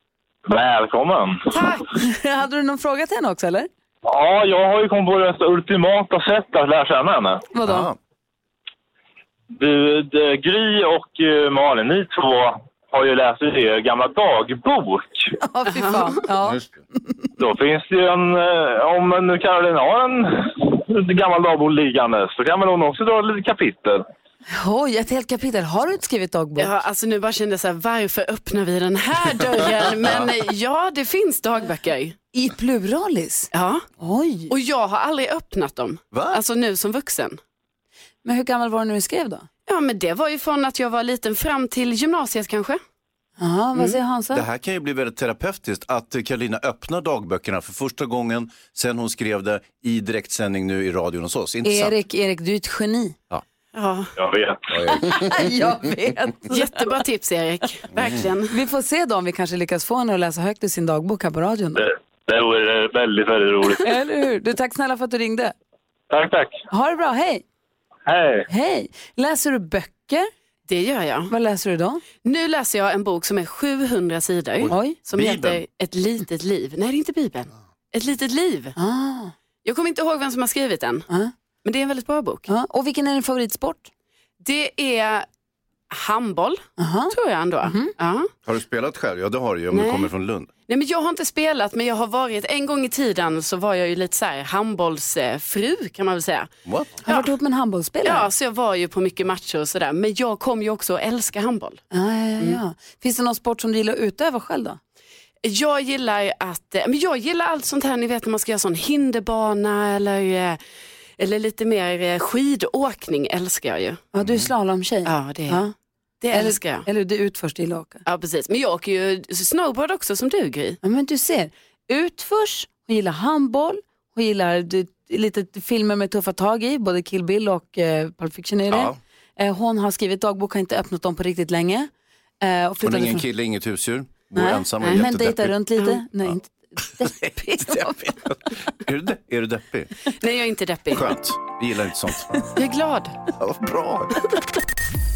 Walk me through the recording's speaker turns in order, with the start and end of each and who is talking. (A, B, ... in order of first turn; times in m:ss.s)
0:00.5-0:01.5 A
0:01.5-0:01.9 B
0:01.9-0:03.7 C
0:04.0-0:07.4 A
0:07.5-0:07.9 C
0:07.6-0:08.0 D
0:09.6-0:15.3 A
0:15.4-0:17.3 C
0:17.4-0:24.1 A
0:24.5-0:26.7 C
0:26.6-0:32.1 B
0:30.0-0:30.3 D
0:32.3-0:34.5 C
0:33.5-0:33.9 B
0:34.5-0:37.4 B
0:36.1-0:36.4 D
0:38.2-0:39.5 C
0:39.7-0:42.8 B
0:43.4-0:44.4 C
0:44.3-0:52.0 D
0:51.6-0:53.2 C
0:53.7-0:54.1 B
0:54.2-0:54.7 A
0:54.7-0:55.1 D
0:55.0-0:56.8 C
0:56.5-0:58.5 B
0:57.9-0:58.2 D
0:58.5-1:01.8 C
1:01.8-1:03.8 A
1:03.8-1:05.5 C
1:06.1-1:06.6 A
1:06.7-1:07.4 C
1:08.1-1:08.4 A
1:08.5-1:10.3 C
1:10.7-1:11.3 B
1:11.3-1:12.0 C
1:12.2-1:18.7 B
1:14.6-1:15.6 D
1:14.7-1:15.0 C
1:18.8-1:19.3 C
1:19.6-1:21.0 B
1:21.6-1:22.5 B
1:22.5-1:23.9 C
1:24.4-1:25.2 B
1:25.9-1:28.3 B
1:26.8-1:27.9 C
1:28.4-1:30.5 D
1:30.7-1:36.5 B
1:36.6-1:37.0 D
1:37.0-1:38.3 C
1:38.1-1:41.8 B
1:41.9-1:44.8 C
1:45.4-1:50.6 B
1:51.2-1:54.0 B
1:54.1-1:55.7 C
1:55.1-1:55.6 B
1:56.2-1:56.8 B
1:56.3-1:58.0 C
1:58.1-2:00.8 B
2:00.8-2:11.9 C
2:08.7-2:09.0 D
2:12.4-2:13.2 C
2:12.8-2:15.6 D
2:14.3-2:18.2 C
2:18.0-2:20.0 D
2:20.2-2:21.0 B
2:20.9-2:22.3 D
2:22.6-2:23.2 B
2:23.3-2:24.3 D